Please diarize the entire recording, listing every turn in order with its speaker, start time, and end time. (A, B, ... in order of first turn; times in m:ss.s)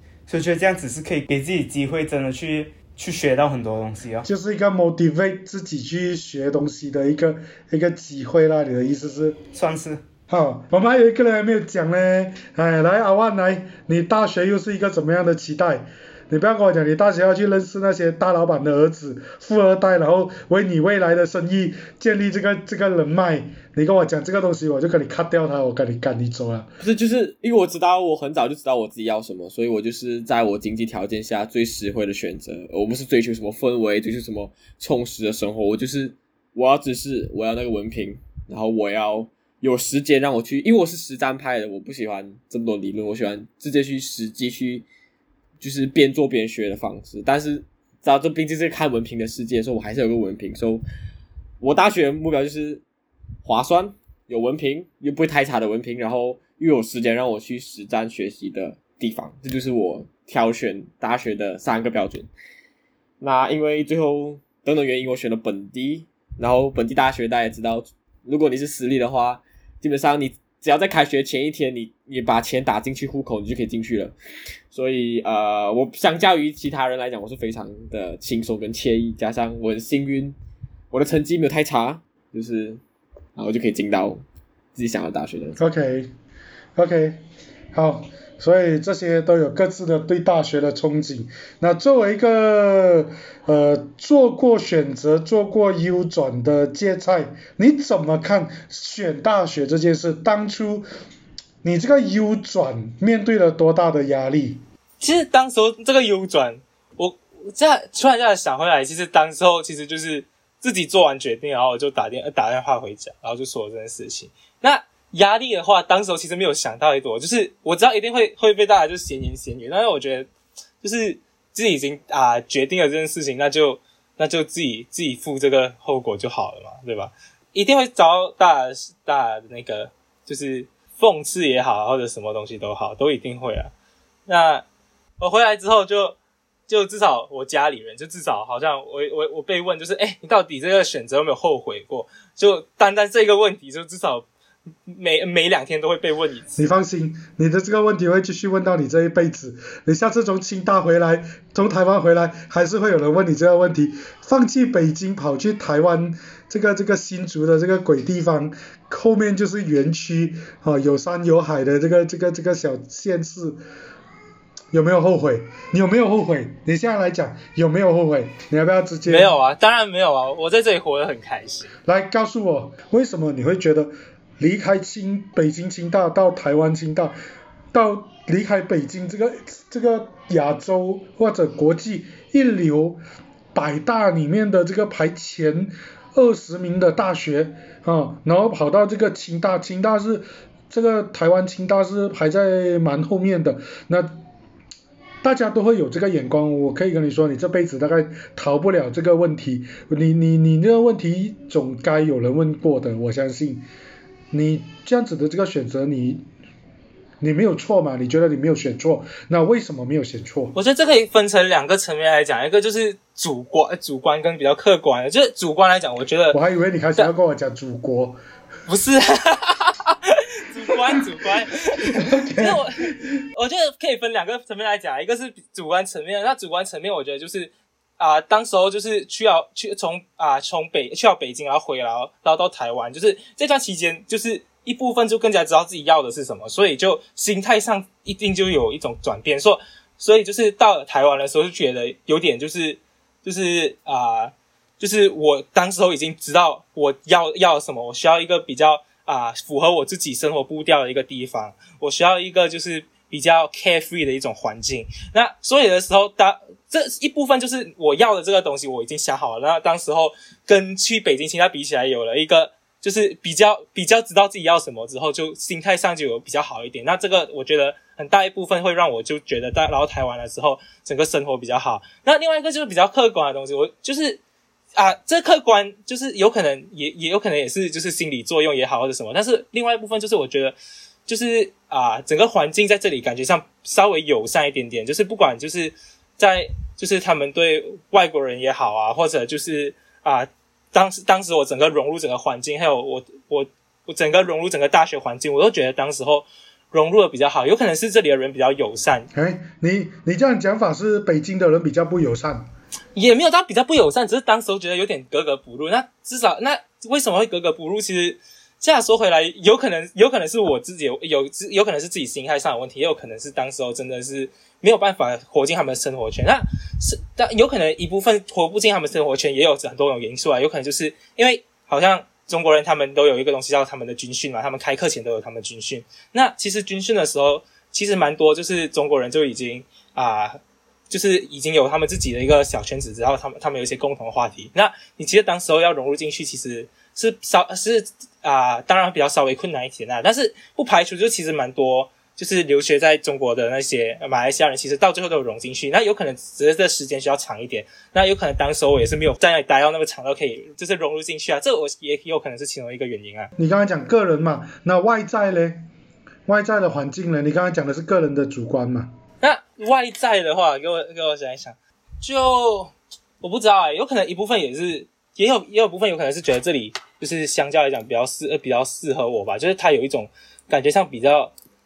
0:00.3-0:04.3 A
0:04.2-0:09.4 B
0:09.5-0:10.0 A
0:10.3-0:26.7 B
0:26.8-0:44.9 C
0:45.6-0:50.8 C
0:51.6-0:52.8 C
0:53.4-1:02.3 C
1:03.2-1:14.1 C
1:14.7-1:20.4 C
1:20.9-1:22.8 C
1:23.4-1:24.2 C
1:24.8-1:25.6 C
1:25.6-1:26.1 B
1:26.8-1:27.2 B
1:27.7-1:40.9 B
1:41.6-1:44.6 B
1:45.0-2:00.3 D
2:00.8-2:13.7 D
2:14.3-2:14.6 D
2:15.2-2:16.2 D
2:16.7-2:24.3 D
2:24.9-2:26.6 D
2:26.6-2:43.6 B
2:44.7-2:49.3 B
2:49.1-2:51.7 D
2:51.9-2:57.2 B
2:57.7-3:03.0 B
3:03.6-3:14.2 B
3:15.2-3:23.7 B
3:24.3-3:26.2 B
3:27.2-3:30.6 B
3:30.5-3:36.4 D
3:36.3-3:38.2 B
3:38.7-4:34.2 D
3:41.8-3:42.9 B
4:34.8-4:40.6 D
4:41.1-4:59.1 D
4:59.1-5:02.5 B
5:03.0-5:30.4 D
5:30.9-5:53.3 D
5:53.4-5:55.6 B
5:56.3-5:58.9 B
5:59.2-6:11.3 D